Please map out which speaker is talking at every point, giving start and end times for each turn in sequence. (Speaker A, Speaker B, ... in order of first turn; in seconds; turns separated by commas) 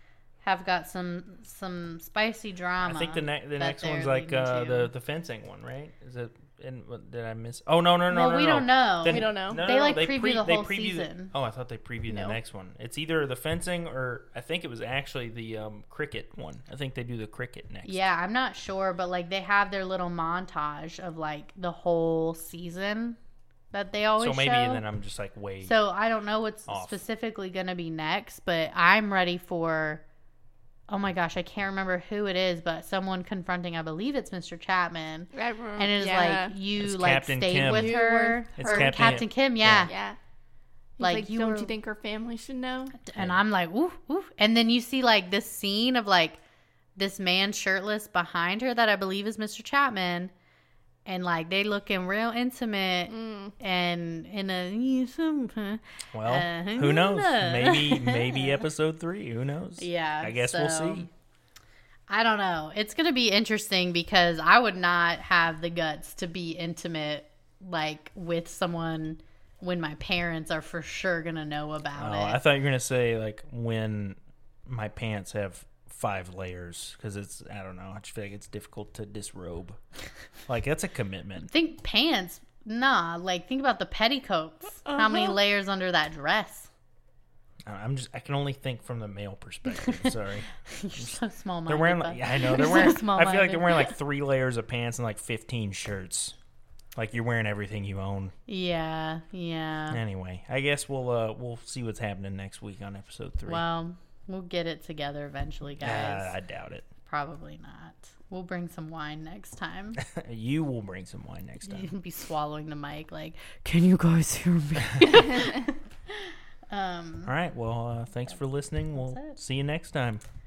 Speaker A: 0.4-4.9, Speaker B: 2.8-18.0, Speaker A: 8.1-11.3, Speaker C: 9.0-9.6, Speaker C: 12.1-12.4, Speaker A: 17.9-23.2, Speaker A: 23.7-24.8, Speaker B: 24.2-25.7, Speaker A: 25.6-30.0, Speaker B: 26.7-27.0, Speaker A: 30.9-39.9, Speaker C: 35.3-36.5, Speaker B: 36.8-38.0, Speaker C: 37.7-39.2, Speaker B: 38.6-39.9, Speaker C: 39.9-40.2, Speaker A: 41.0-41.7, Speaker C: 41.0-43.0, Speaker A: 43.0-46.4, Speaker A: 47.0-50.3, Speaker A: 51.0-58.6, Speaker C: 53.1-53.5, Speaker B: 56.1-61.1, Speaker A: 59.8-61.1, Speaker A: 62.1-72.4, Speaker B: 72.0-79.8, Speaker B: 80.5-81.5, Speaker A: 81.4-86.7, Speaker C: 84.9-85.3, Speaker B: 87.7-91.1, Speaker A: 89.7-90.1, Speaker A: 90.7-94.0, Speaker B: 91.7-96.3, Speaker B: 97.0-98.3, Speaker A: 98.5-100.0, Speaker B: 99.9-103.6, Speaker A: 103.5-106.3, Speaker B: 105.8-106.9, Speaker A: 107.1-110.0, Speaker B: 110.0-111.9, Speaker A: 111.6-117.3, Speaker C: 115.3-115.6, Speaker B: 117.2-120.2, Speaker A: 118.9-119.4